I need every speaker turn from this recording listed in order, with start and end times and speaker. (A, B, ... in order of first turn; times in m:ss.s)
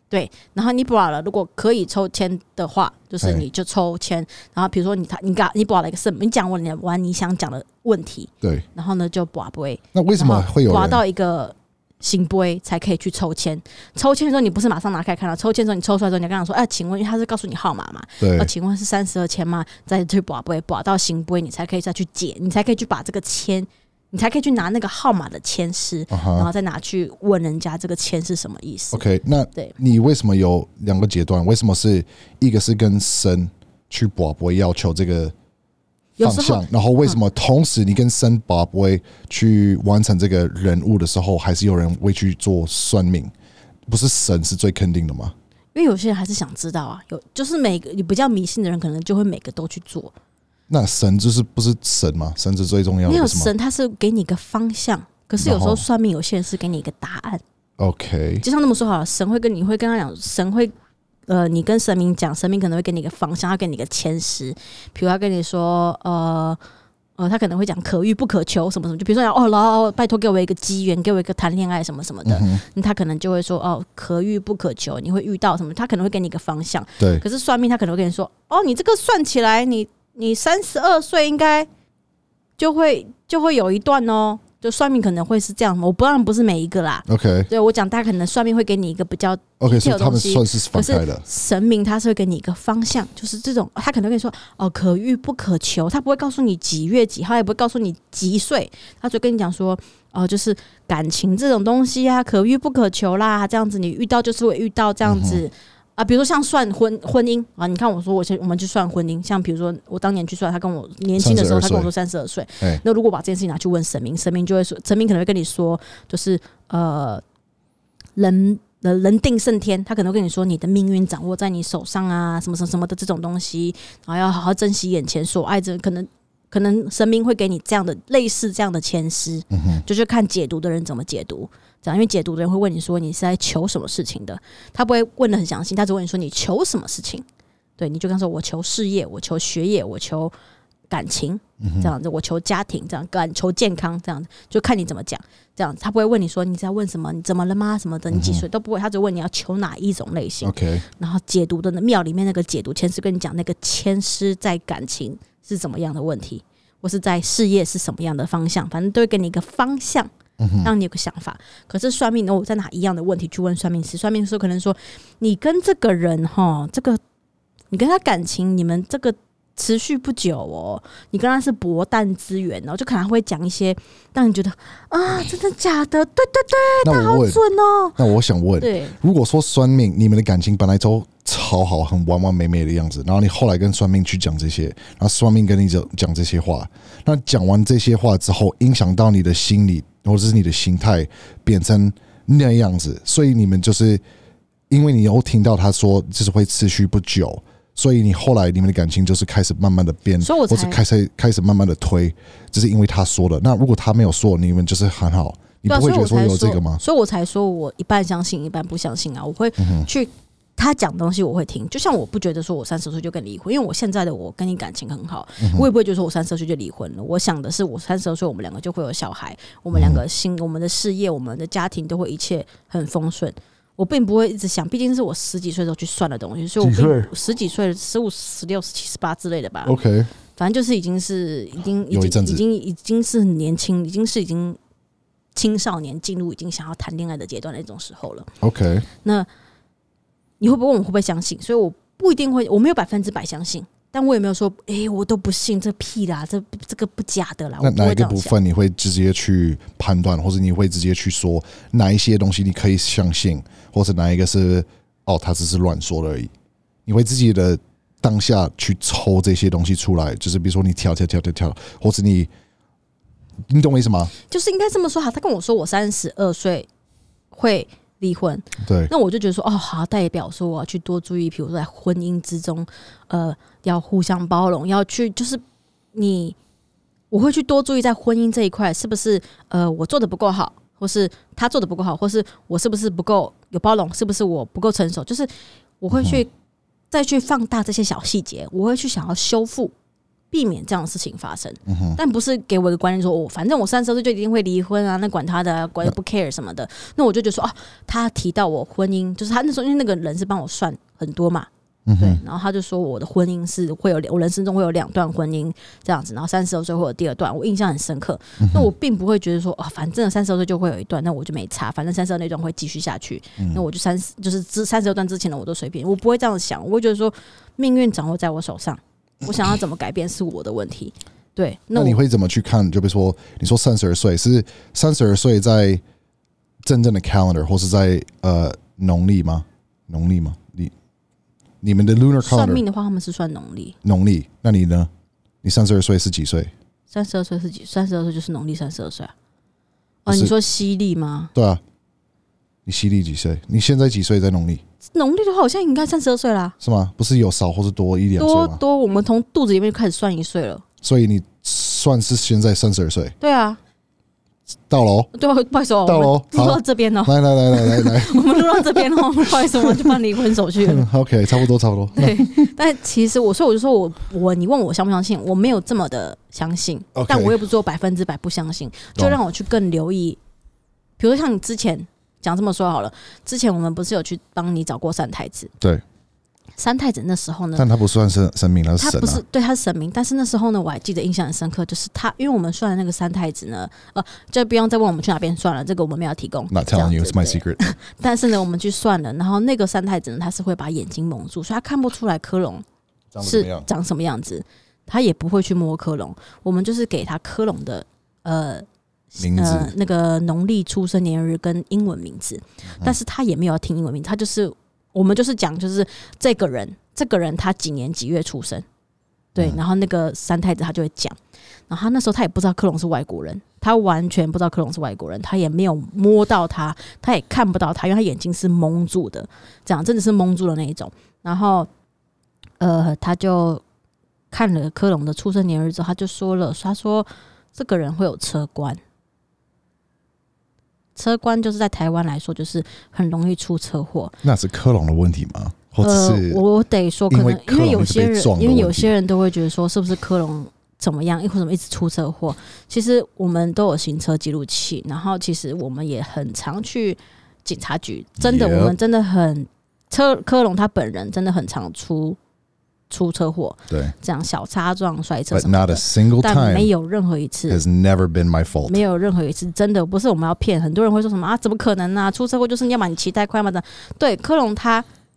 0:00.1-0:29.0 A
0:09.9-0:11.0 B
0:18.2-0:18.5 B
0:26.1-0:26.5 B
0:28.9-0:35.3 B
0:36.2-0:37.2 A
0:36.2-0:43.3 B
0:43.9-0:45.3 B
0:45.7-0:50.1 A
0:50.7-0:53.5 B
0:53.0-0:57.4 A
0:55.4-0:55.8 B
0:57.8-0:58.4 B
0:58.4-1:00.7 A
1:01.3-1:06.6 A
1:07.2-1:21.7 A
1:12.2-1:12.6 B
1:22.6-1:57.2 A
1:27.1-1:27.5 B
1:29.6-1:31.2 B
1:45.0-1:45.4 B
1:51.2-1:51.9 B
1:58.2-2:17.2 A
2:09.5-2:09.8 B
2:17.8-2:20.3 A
2:20.9-2:40.1 A
2:21.6-2:21.9 B
2:28.1-2:28.4 B
2:30.4-2:30.8 B
2:40.4-2:40.7 B
2:40.6-2:47.0 A
2:47.7-2:58.0 A
2:56.8-2:57.4 B
2:58.0-3:14.0 B
2:58.6-2:59.0 A
3:14.7-3:26.8 B
3:20.2-3:20.8 A
3:25.7-3:49.7 A
3:29.6-3:29.9 B
3:35.4-3:35.7 B
3:39.7-3:40.0 B
3:46.6-3:47.1 B
3:49.6-3:50.1 B
3:50.4-3:54.6 A
3:51.9-3:52.4 B
3:55.3-3:58.3 A
3:58.4-3:58.9 B
4:00.4-4:08.4 A
4:07.6-4:16.3 B
4:16.8-4:22.3 B
4:23.5-4:24.1 B
4:24.3-4:26.7 A
4:27.3-4:35.4 A
4:28.6-4:28.9 B
4:35.9-4:36.4 A
4:37.1-4:45.3 A
4:45.8-4:46.3 A
4:45.9-4:46.2 B
4:46.9-4:49.7 A
4:50.3-5:22.0 A
4:51.7-4:52.0 B
5:01.8-5:02.2 B
5:08.4-5:08.7 B
5:13.4-5:13.6 B
5:21.7-5:25.8 B
5:26.6-5:30.7 B
5:31.6-5:32.6 B
5:32.2-5:33.8 A
5:33.8-5:34.9 B
5:35.4-5:36.5 B
5:36.9-5:39.1 A
5:40.0-5:41.3 A
5:40.1-5:40.3 B
5:41.3-5:41.6 B
5:42.6-5:44.6 B
5:44.9-5:46.5 A
5:46.6-5:48.6 B
5:48.2-5:50.6 A
5:50.8-5:53.2 B
5:53.2-5:53.6 A
5:54.7-5:55.1 B
5:55.1-6:00.9 A
5:55.8-6:00.0 B
6:00.6-6:02.5 B
6:02.0-6:10.2 A
6:06.9-6:07.4 B
6:11.0-6:15.5 A
6:16.6-6:17.7 A
6:17.6-6:19.2 B
6:18.8-6:32.6 A
6:26.5-6:27.6 B
6:33.1-6:33.7 B
6:33.2-6:48.6 A
6:39.2-6:39.7 B
6:49.3-6:51.2 A
6:51.7-7:01.7 A
7:02.6-7:03.6 A
7:04.3-7:08.8 A
7:10.9-7:14.2 A
7:14.2-7:16.4 B
7:15.8-7:32.2 A
7:17.1-7:18.9 B
7:28.2-7:28.8 B
7:32.9-7:37.6 A
7:35.3-7:36.7 B
7:37.5-7:38.8 B
7:38.6-7:44.8 A